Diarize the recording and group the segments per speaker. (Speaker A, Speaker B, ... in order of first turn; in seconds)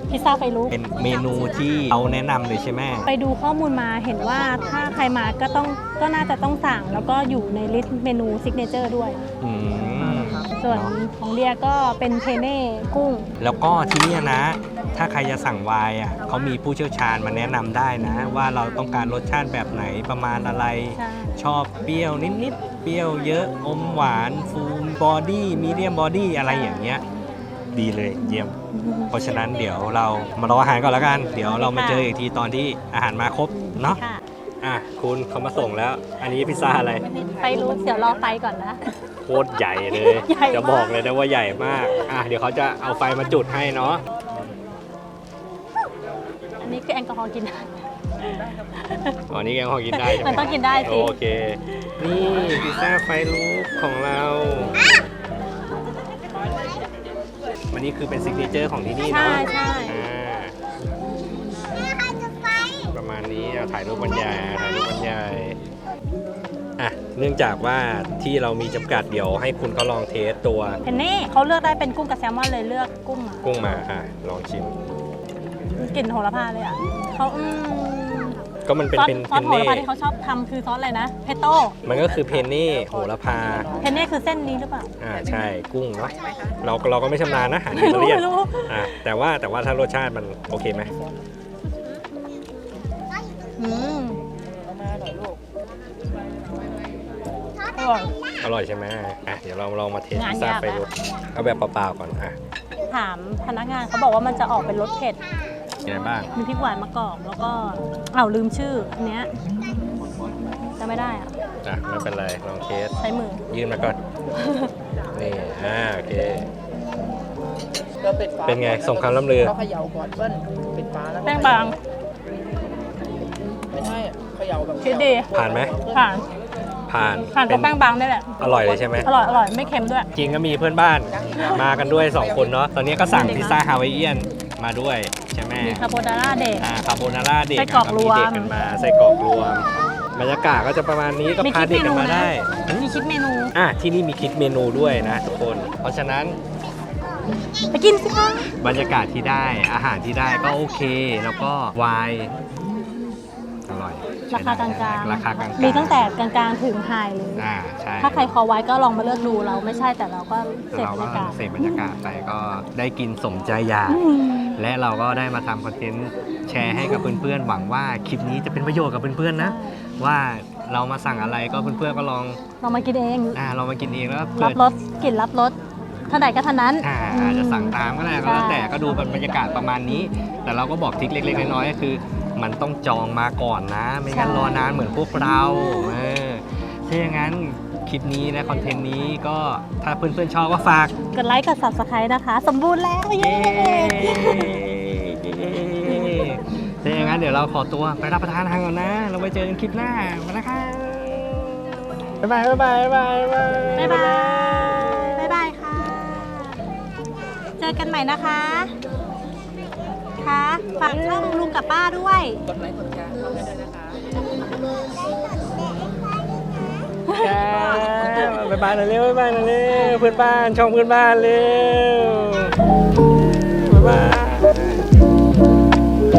Speaker A: 0.1-0.7, 3.0-9.2, 10.5-13.3, 18.1-18.4, 20.4-21.3, 26.4-27.1, 28.3-29.1, 31.4-32.1, 33.5-34.2, 37.3-38.8, 39.9-41.0, 46.6-49.1, 49.9-51.1, 59.1-60.0, 70.8-73.5, 75.8-78.4, 78.9-81.8, 83.8-84.9, 87.7-89.0, 93.6-94.2, 97.8-98.1, 100.1-100.8, 102.9-105.2, 106.3-109.3, 110.8-111.3, 113.0-113.4, 114.4-114.7, 121.2-121.7, 124.8-125.3, 125.9-126.2, 127.3-130.1, 131.4-131.6, 133.1-133.6, 135.6-136.7, 137.5-138.5, 141.4-143.5, 147.7-148.5, 154.3-157.5, 158.0-161.8, 163.9-164.6, 166.8-167.1, 169.4-169.8, 172.6-173.4, 174.3-175.6, 176.1-178.8, 184.1-184.7, 185.6-185.9, 191.1-194.6, 195.8-196.4, 203.7-206.6, 207.6-208.7, 210.2-212.4, 217.1-218.3
Speaker B: 0.7-3.1, 9.4-10.9, 13.4-27.0, 27.7-28.5, 29.1-34.0, 34.6-37.1, 39.2-44.0, 49.3-54.8, 57.7-60.5, 62.9-65.6, 66.8-70.8, 73.4-74.7, 78.7-79.9, 81.8-83.7, 85.0-90.9, 98.4-102.4, 105.8-106.3, 111.6-112.9, 113.5-114.0, 115.1-116.5, 118.4-119.5, 125.3-125.8, 126.9-127.7, 128.4-129.1, 130.1-135.8, 136.6-142.6, 143.5-146.4, 148.6-152.3, 153.7-156.2, 157.4-158.3, 160.7-172.4, 173.3-174.6, 176.8-190.9, 193.2-205.4, 210.8-211.6, 217.2-222.5, 223.4-224.9
Speaker C: 37.1-37.7, 94.8-95.4, 118.0-119.0, 119.5-121.7, 123.7-125.9, 212.7-213.8